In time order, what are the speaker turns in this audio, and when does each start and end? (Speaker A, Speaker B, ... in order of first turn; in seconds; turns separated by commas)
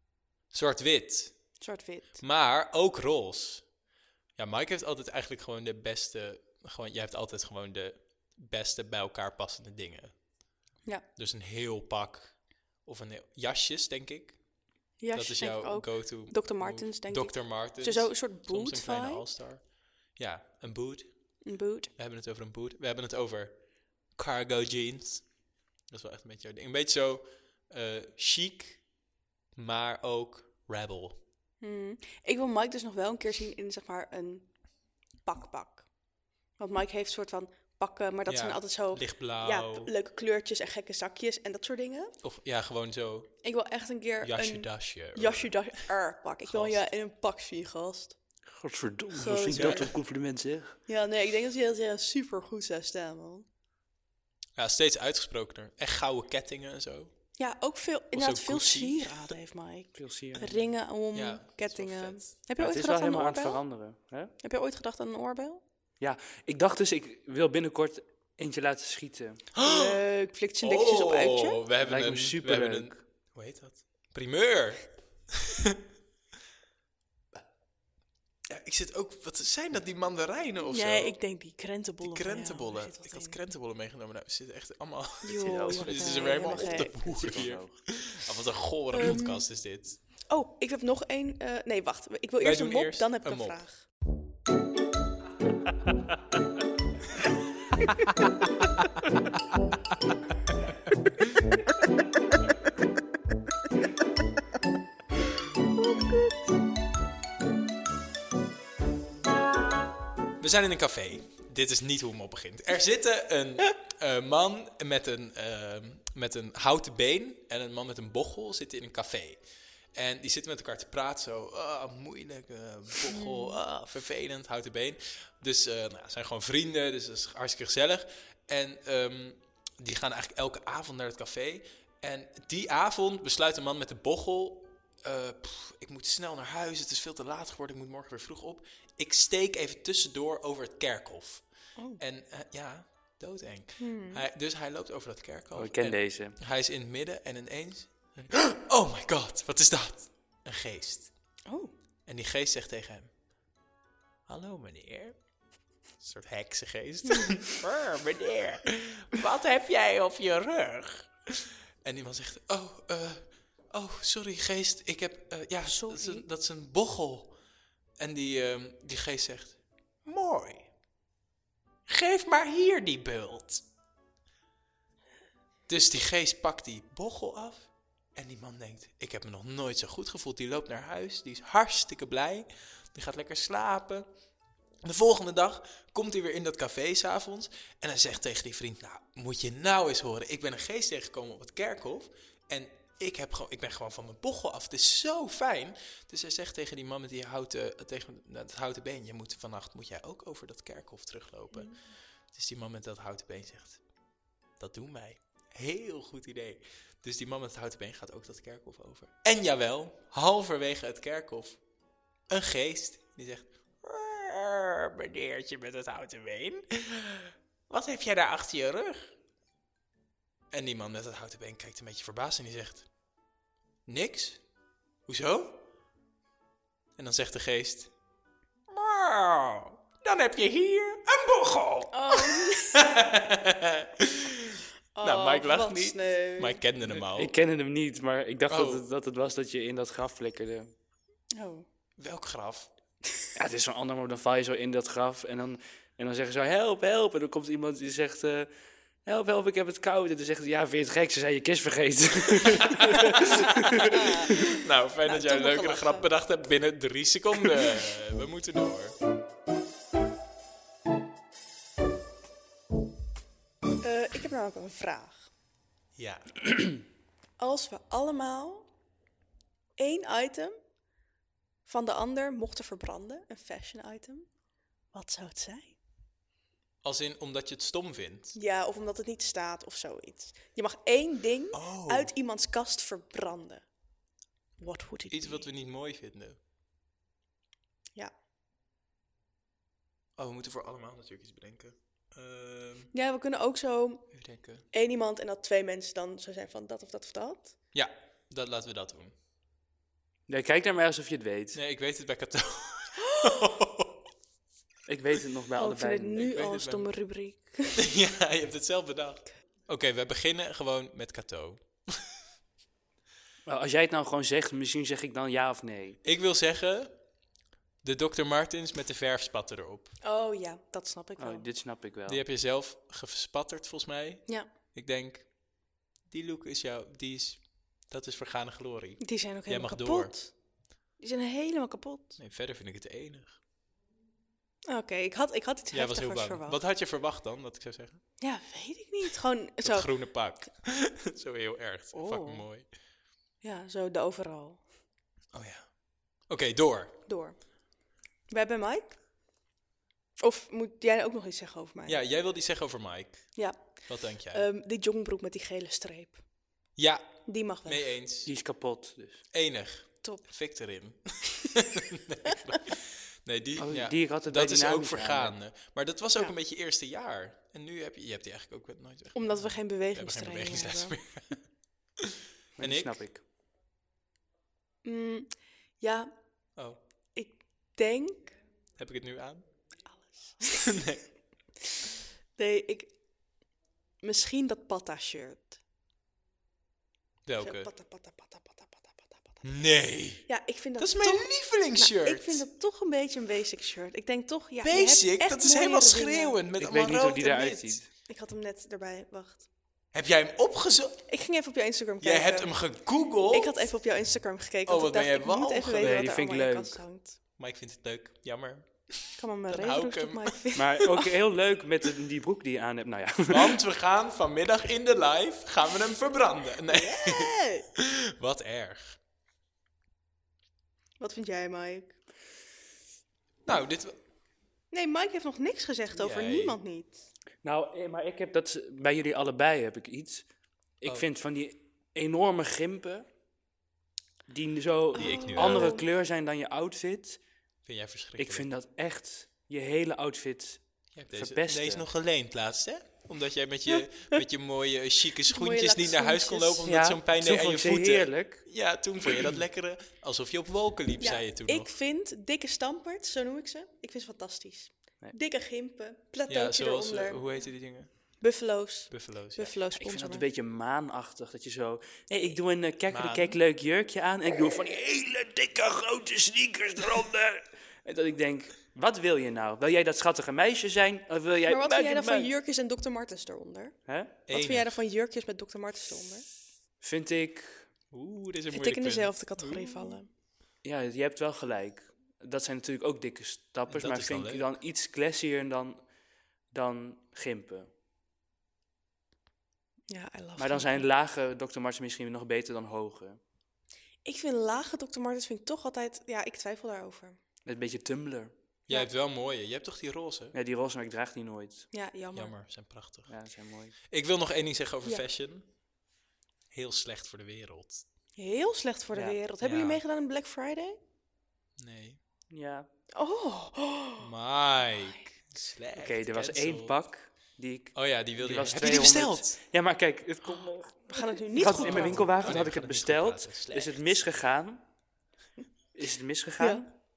Speaker A: 0.5-1.6, Speaker B: 1.6-2.2, Speaker A: 2.2-3.7, Speaker A: 4.3-10.2, Speaker A: 11.2-14.4, Speaker B: 15.0-19.3, Speaker A: 15.1-21.4, Speaker B: 21.4-21.9, Speaker A: 22.0-23.6, Speaker A: 24.1-25.3, Speaker A: 25.9-28.9, Speaker A: 29.5-31.2, Speaker B: 31.6-34.5, Speaker B: 35.2-35.9, Speaker B: 36.6-42.2, Speaker A: 38.3-39.9, Speaker A: 42.2-43.3, Speaker B: 43.4-48.2, Speaker A: 44.2-45.8, Speaker A: 46.5-46.8, Speaker C: 48.5-50.8, Speaker B: 49.1-50.0, Speaker A: 49.5-49.9, Speaker B: 50.9-53.5, Speaker A: 54.6-57.1, Speaker B: 57.4-63.6, Speaker A: 58.1-59.3, Speaker C: 60.0-60.7, Speaker A: 61.1-62.3, Speaker C: 62.6-64.3, Speaker B: 64.4-65.6, Speaker C: 66.0-69.4, Speaker A: 69.5-70.0, Speaker B: 69.6-71.6, Speaker A: 70.6-75.8, Speaker C: 71.8-73.0, Speaker A: 78.5-81.1, Speaker B: 80.7-83.4, Speaker A: 82.0-90.0, Speaker B: 85.2-87.0, Speaker C: 85.4-87.8, Speaker B: 88.9-89.5, Speaker B: 90.3-93.8, Speaker A: 92.4-93.6, Speaker B: 105.9-106.3, Speaker A: 110.4-119.4, Speaker A: 119.9-141.4, Speaker B: 123.1-123.6, Speaker B: 141.8-142.0, Speaker A: 142.0-151.1, Speaker B: 143.8-144.2, Speaker C: 145.6-146.3, Speaker B: 151.4-151.7, Speaker A: 152.1-153.1, Speaker A: 154.3-155.2, Speaker A: 156.0-167.3, Speaker B: 165.6-166.2, Speaker A: 168.0-170.7, Speaker A: 171.9-173.6, Speaker A: 175.7-184.1, Speaker A: 184.8-201.7, Speaker A: 202.3-203.8, Speaker A: 204.6-211.6, Speaker A: 212.3-219.1, Speaker A: 220.5-222.9, Speaker A: 223.9-224.4, Speaker A: 225.1-225.6, Speaker A: 227.0-227.9, Speaker A: 228.7-237.3, Speaker B: 231.9-232.9, Speaker B: 234.9-236.6, Speaker C: 236.9-240.7, Speaker A: 238.5-238.8, Speaker B: 241.3-241.6, Speaker A: 242.0-242.7, Speaker C: 243.3-248.5, Speaker C: 249.0-254.4, Speaker A: 252.4-258.9, Speaker B: 253.8-254.5, Speaker B: 255.0-256.1, Speaker B: 263.8-265.3, Speaker A: 265.9-266.4, Speaker B: 267.4-268.7, Speaker B: 269.8-270.5, Speaker B: 271.7-274.3, Speaker B: 274.9-275.8, Speaker A: 276.8-278.4, Speaker B: 278.3-283.6, Speaker A: 281.5-282.1, Speaker B: 284.6-285.5, Speaker A: 285.1-286.4, Speaker A: 290.2-292.9, Speaker B: 292.9-294.1, Speaker A: 294.1-294.6, Speaker B: 294.7-297.5, Speaker A: 297.7-299.1, Speaker C: 300.3-301.6, Speaker A: 301.5-304.0, Speaker C: 304.9-306.3, Speaker B: 305.6-307.8, Speaker A: 306.2-306.9, Speaker A: 307.8-312.0, Speaker C: 313.4-316.0, Speaker A: 316.0-316.9, Speaker A: 317.8-319.9, Speaker B: 320.0-321.4, Speaker C: 321.2-322.2, Speaker A: 322.1-325.3, Speaker A: 326.1-330.1, Speaker B: 329.0-330.3, Speaker B: 331.0-332.2, Speaker A: 332.2-333.4, Speaker B: 334.7-336.6, Speaker A: 335.7-338.0, Speaker B: 338.2-339.9, Speaker A: 339.6-342.7, Speaker B: 341.9-342.5, Speaker B: 343.4-344.6, Speaker A: 345.3-347.0, Speaker B: 347.1-347.4, Speaker B: 348.3-349.0, Speaker B: 350.2-352.0, Speaker A: 351.9-354.4, Speaker B: 353.4-356.2, Speaker A: 356.8-358.3, Speaker B: 357.3-357.9, Speaker C: 358.2-359.2, Speaker A: 359.3-371.4, Speaker C: 363.6-365.4, Speaker B: 369.1-370.9, Speaker A: 372.0-373.0, Speaker C: 372.6-373.2, Speaker B: 374.8-376.1, Speaker B: 377.1-378.4, Speaker A: 378.8-379.4, Speaker B: 380.0-380.8, Speaker A: 380.5-381.0, Speaker B: 382.4-382.9, Speaker B: 384.0-385.6, Speaker A: 387.2-387.7, Speaker B: 387.4-389.4, Speaker A: 389.4-390.2, Speaker B: 390.3-396.4, Speaker A: 390.8-392.4, Speaker A: 394.6-397.8, Speaker C: 396.6-397.9, Speaker B: 398.0-399.4, Speaker A: 399.9-401.0, Speaker B: 401.1-402.7, Speaker A: 402.0-403.7, Speaker B: 403.3-407.2, Speaker A: 404.6-406.0, Speaker C: 405.8-406.8, Speaker A: 407.4-410.4, Speaker B: 409.2-411.1, Speaker C: 410.6-413.6, Speaker A: 413.3-419.0, Speaker B: 416.7-417.7, Speaker B: 421.0-421.9, Speaker A: 423.4-423.9, Speaker B: 424.7-427.1, Speaker A: 425.9-426.6, Speaker C: 427.4-430.3, Speaker C: 430.8-433.1, Speaker C: 434.3-437.2, Speaker A: 434.9-435.8, Speaker B: 434.9-435.8, Speaker A: 437.6-438.5, Speaker C: 438.2-441.9, Speaker A: 440.9-451.7, Speaker B: 445.3-446.6, Speaker C: 446.6-448.4, Speaker B: 451.0-457.2, Speaker A: 456.3-457.9, Speaker B: 458.2-460.2, Speaker A: 458.9-459.6, Speaker C: 459.7-472.3, Speaker A: 462.9-463.4, Speaker B: 471.5-476.3, Speaker C: 473.9-474.1, Speaker A: 474.3-474.8, Speaker C: 476.8-477.7, Speaker A: 477.9-480.0, Speaker B: 478.5-480.1, Speaker C: 480.6-485.8, Speaker A: 483.7-484.5, Speaker C: 486.5-487.7, Speaker B: 489.9-490.9, Speaker C: 490.4-493.2, Speaker B: 494.0-497.2, Speaker C: 497.4-498.3, Speaker A: 498.7-500.4, Speaker C: 500.3-501.7, Speaker B: 501.7-502.3, Speaker A: 502.1-503.1, Speaker C: 503.1-503.8, Speaker A: 503.9-505.5, Speaker A: 506.5-507.8, Speaker B: 508.2-510.8, Speaker A: 509.4-509.8, Speaker A: 511.6-512.0, Speaker C: 512.3-512.7, Speaker B: 512.9-514.1, Speaker A: 514.0-516.8, Speaker C: 515.8-524.6, Speaker A: 517.7-519.4, Speaker B: 520.9-522.2, Speaker A: 521.4-524.0, Speaker C: 525.7-526.8, Speaker B: 526.4-526.7